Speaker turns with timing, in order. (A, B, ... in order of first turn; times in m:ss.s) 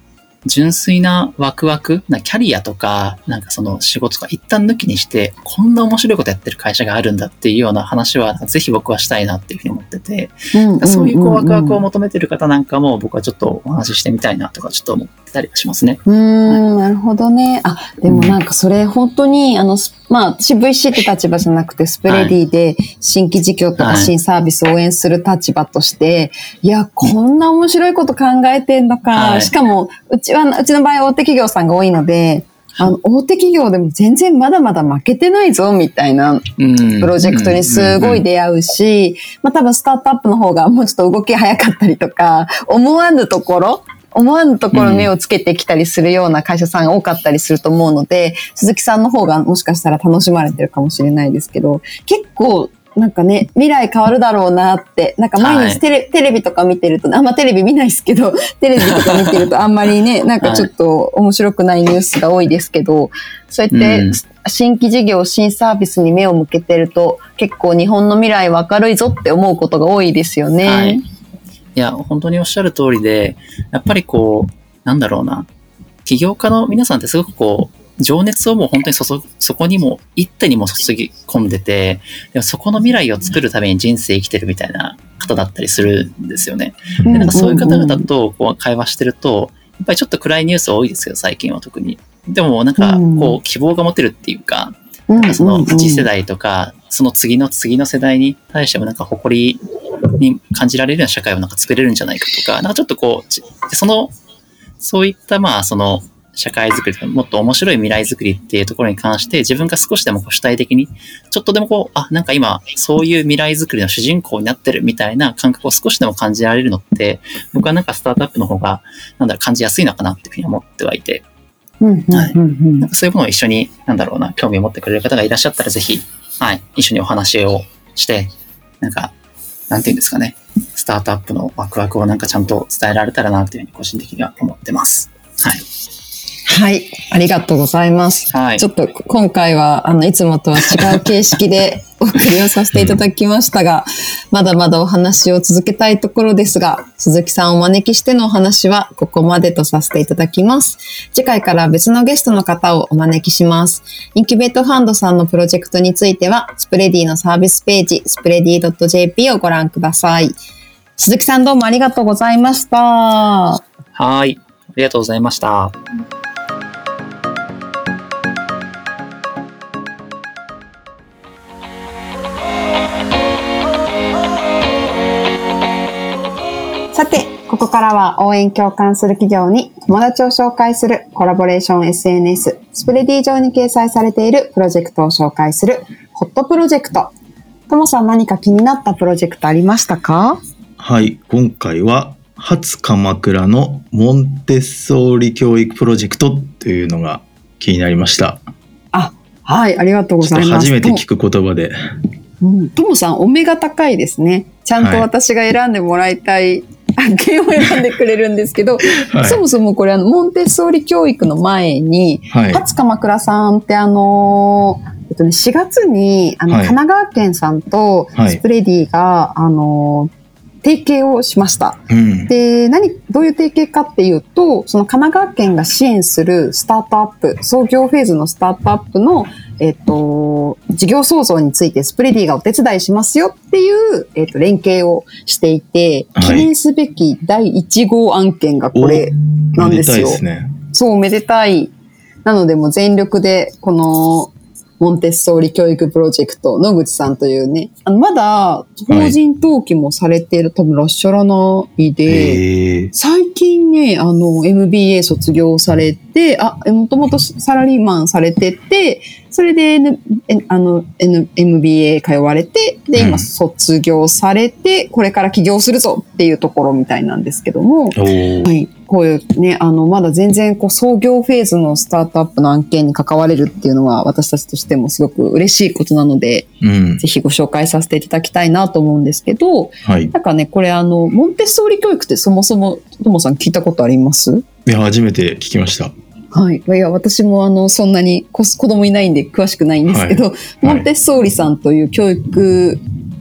0:00.4-0:16.6 A
0:10.5-0:11.8 B
0:16.1-1:11.0 B
0:22.1-0:22.3 A
0:23.8-0:24.1 A
0:29.1-0:29.5 A
0:36.6-0:38.2 A
0:44.7-0:45.1 A
0:55.4-0:55.8 A
0:58.8-0:59.5 A
1:00.4-1:00.7 A
1:03.7-1:04.2 A
1:10.6-1:11.0 A
1:11.8-1:15.5 A
1:16.0-1:39.6 A
1:27.0-1:27.5 C
1:27.1-1:28.1 B
1:32.8-1:33.4 B
1:35.1-1:36.1 B
1:40.1-1:44.1 A
1:44.8-2:01.2 A
2:01.8-2:02.9 B
2:02.1-2:09.1 A
2:09.7-2:15.6 A
2:16.5-2:40.4 B
2:18.3-2:18.7 A
2:22.7-2:23.0 C
2:41.0-2:43.6 B
2:44.0-2:45.8 A
2:56.9-3:07.1 B
3:07.7-3:10.4 B
3:10.8-3:18.4 C
3:18.9-3:21.0 B
3:20.2-3:21.8 C
3:22.4-3:40.1 B
3:24.8-3:25.1 C
3:29.0-3:29.4 C
3:32.3-3:32.6 C
3:36.5-3:36.8 C
3:40.6-4:00.2 B
3:41.9-3:42.3 C
3:56.2-3:56.5 C
3:58.8-4:00.6 C
4:00.7-4:01.7 B
4:02.2-4:12.4 B
4:08.9-4:09.2 C
4:12.1-4:12.9 C
4:12.9-4:44.4 B
4:23.0-4:23.3 C
4:27.9-4:28.5 C
4:36.6-4:37.0 C
4:39.8-4:40.1 C
4:44.7-4:45.9 C
4:46.3-4:52.8 B
4:49.9-4:50.9 C